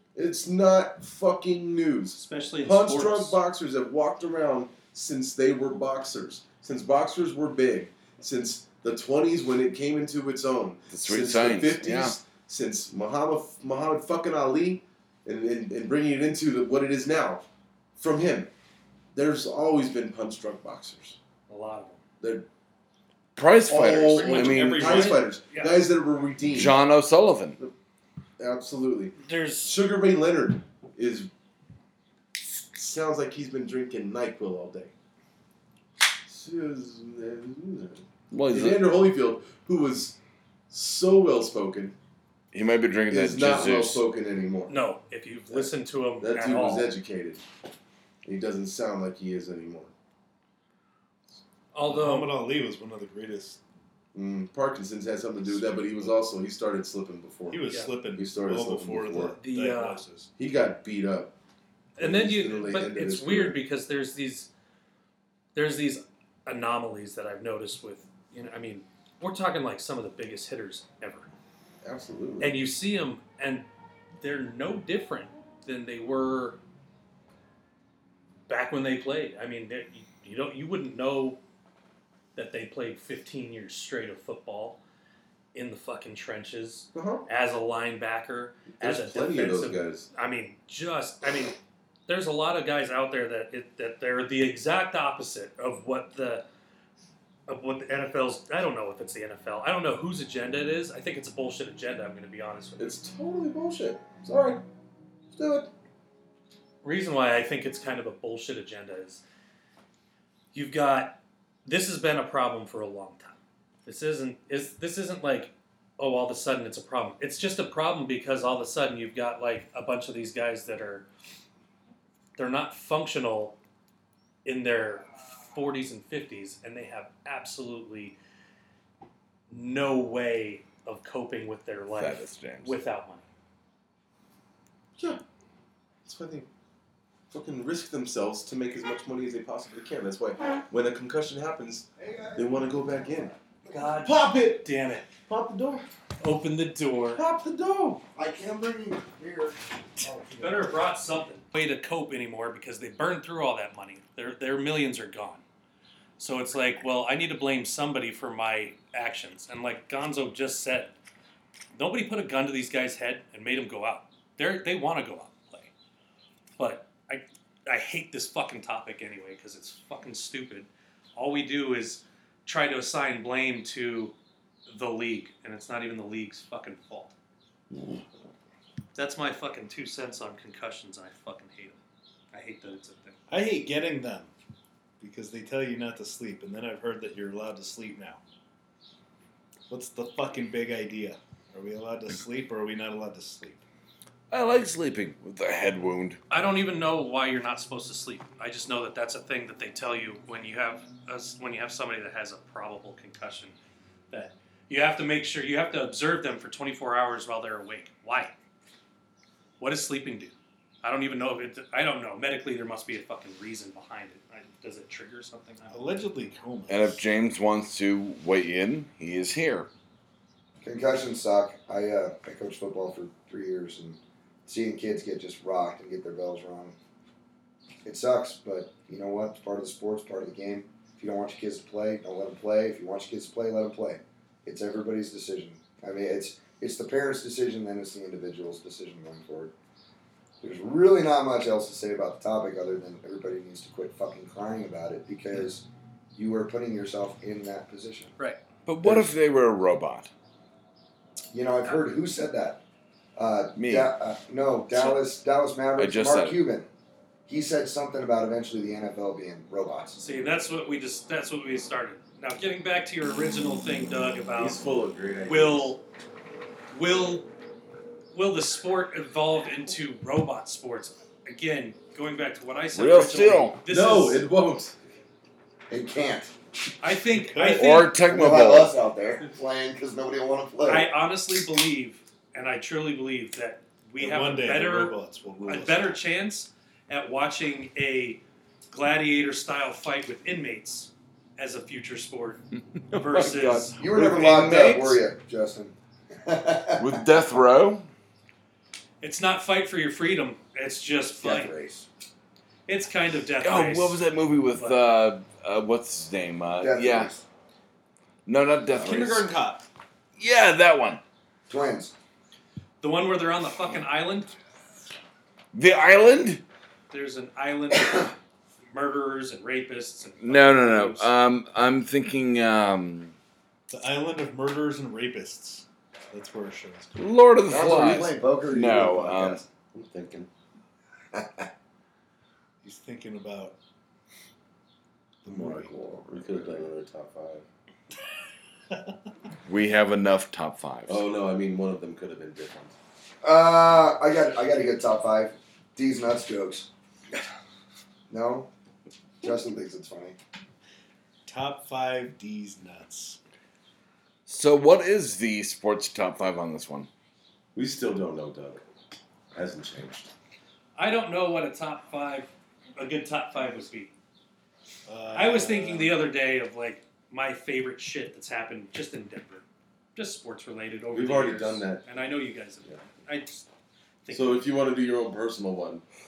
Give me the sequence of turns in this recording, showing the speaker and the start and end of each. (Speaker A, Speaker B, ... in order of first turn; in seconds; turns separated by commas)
Speaker A: 0.1-17.4, Speaker B: 2.1-3.4, Speaker C: 10.9-12.2, Speaker A: 18.0-18.5, Speaker A: 19.1-21.2, Speaker B: 21.5-22.0, Speaker A: 22.2-22.4, Speaker C: 23.4-25.2, Speaker A: 23.7-26.8, Speaker B: 24.1-25.8, Speaker C: 26.5-27.6, Speaker A: 28.4-31.3, Speaker B: 29.2-29.7, Speaker A: 32.6-34.9, Speaker A: 36.3-40.2, Speaker C: 38.3-38.8, Speaker A: 40.7-41.9, Speaker C: 42.5-44.0, Speaker A: 43.1-44.7, Speaker B: 44.7-46.9, Speaker A: 45.5-47.4, Speaker A: 48.2-49.9, Speaker B: 51.7-52.3, Speaker D: 51.8-53.6, Speaker A: 54.1-59.4, Speaker D: 57.5-60.3, Speaker B: 59.4-60.0, Speaker A: 60.4-61.3, Speaker A: 62.0-63.6, Speaker B: 62.0-64.5, Speaker B: 65.5-71.3, Speaker A: 71.8-72.6, Speaker B: 72.4-73.6, Speaker B: 74.2-76.6, Speaker B: 78.5-81.4, Speaker B: 82.3-84.8, Speaker B: 85.5-91.5, Speaker A: 86.9-87.2, Speaker A: 88.8-90.1, Speaker B: 92.1-96.4, Speaker B: 97.5-103.0, Speaker A: 102.8-104.6, Speaker A: 105.3-105.7, Speaker B: 106.8-109.2, Speaker B: 110.5-121.0, Speaker B: 122.4-123.5, Speaker B: 124.4-128.2, Speaker B: 129.5-133.2, Speaker C: 131.9-132.8, Speaker A: 136.0-136.5, Speaker A: 137.3-143.3, Speaker E: 142.0-143.9, Speaker B: 143.7-145.1, Speaker A: 144.0-144.7, Speaker A: 145.3-145.8, Speaker B: 146.2-147.2, Speaker A: 147.2-148.0, Speaker E: 148.1-150.7, Speaker B: 150.3-155.4, Speaker B: 156.2-160.9, Speaker B: 161.7-165.7, Speaker B: 166.6-174.1, Speaker B: 174.7-177.1, Speaker B: 178.9-181.8, Speaker B: 182.3-183.2, Speaker D: 183.3-184.3, Speaker D: 185.0-188.2, Speaker D: 189.7-193.6, Speaker C: 194.3-196.2, Speaker B: 196.3-203.5, Speaker B: 204.1-208.3, Speaker B: 209.6-215.8, Speaker D: 215.7-217.0, Speaker C: 216.7-219.7, Speaker E: 220.6-226.8, Speaker E: 227.8-239.5, Speaker E: 240.4-245.6, Speaker E: 246.2-248.1, Speaker C: 248.7-250.1, Speaker E: 248.8-249.1, Speaker E: 251.3-252.6, Speaker E: 253.2-256.7, Speaker C: 253.6-253.9, Speaker C: 255.8-256.4, Speaker E: 257.3-260.0, Speaker B: 260.0-264.6, Speaker A: 264.4-265.7, Speaker B: 265.2-265.8, Speaker B: 266.7-267.3, Speaker B: 268.1-274.2, Speaker C: 272.7-273.6, Speaker A: 273.7-274.8, Speaker E: 275.7-276.3, Speaker B: 276.8-277.9, Speaker D: 277.1-277.8, Speaker C: 277.5-278.8, Speaker E: 278.0-280.9, Speaker B: 280.6-293.8, Speaker D: 284.0-286.0, Speaker C: 292.8-295.0, Speaker E: 293.8-297.0, Speaker C: 296.8-297.9, Speaker B: 299.0-301.5, Speaker E: 301.2-301.9, Speaker B: 302.7-304.0, Speaker C: 303.4-307.1, Speaker B: 304.5-304.8, Speaker E: 306.6-307.2, Speaker C: 308.2-309.3, Speaker D: 308.7-309.6, Speaker C: 310.2-311.0, Speaker E: 311.5-311.9, Speaker B: 312.8-314.3, Speaker C: 315.5-316.4, Speaker B: 316.9-318.1, Speaker B: 318.7-321.1, Speaker C: 320.2-323.1, Speaker D: 323.7-327.1, Speaker C: 327.0-329.4, Speaker E: 327.5-329.5, Speaker A: 329.7-330.3, Speaker E: 331.1-331.5, Speaker D: 332.6-333.5, Speaker D: 335.2-335.7, Speaker A: 335.2-337.4, Speaker E: 336.0-336.4, Speaker C: 339.4-341.0, Speaker A: 340.9-342.7, Speaker E: 343.2-346.7, Speaker E: 348.1-348.5, Speaker E: 349.2-350.2, Speaker D: 351.2-353.2, Speaker C: 354.3-356.9, Speaker A: 357.5-358.6, Speaker A: 359.3-360.1, Speaker B: 360.8-363.9, Speaker D: 364.9-366.0, Speaker B: 365.1-369.4, Speaker B: 369.9-373.4, Speaker A: 370.9-371.8, Speaker B: 374.0-374.5, Speaker A: 374.1-375.8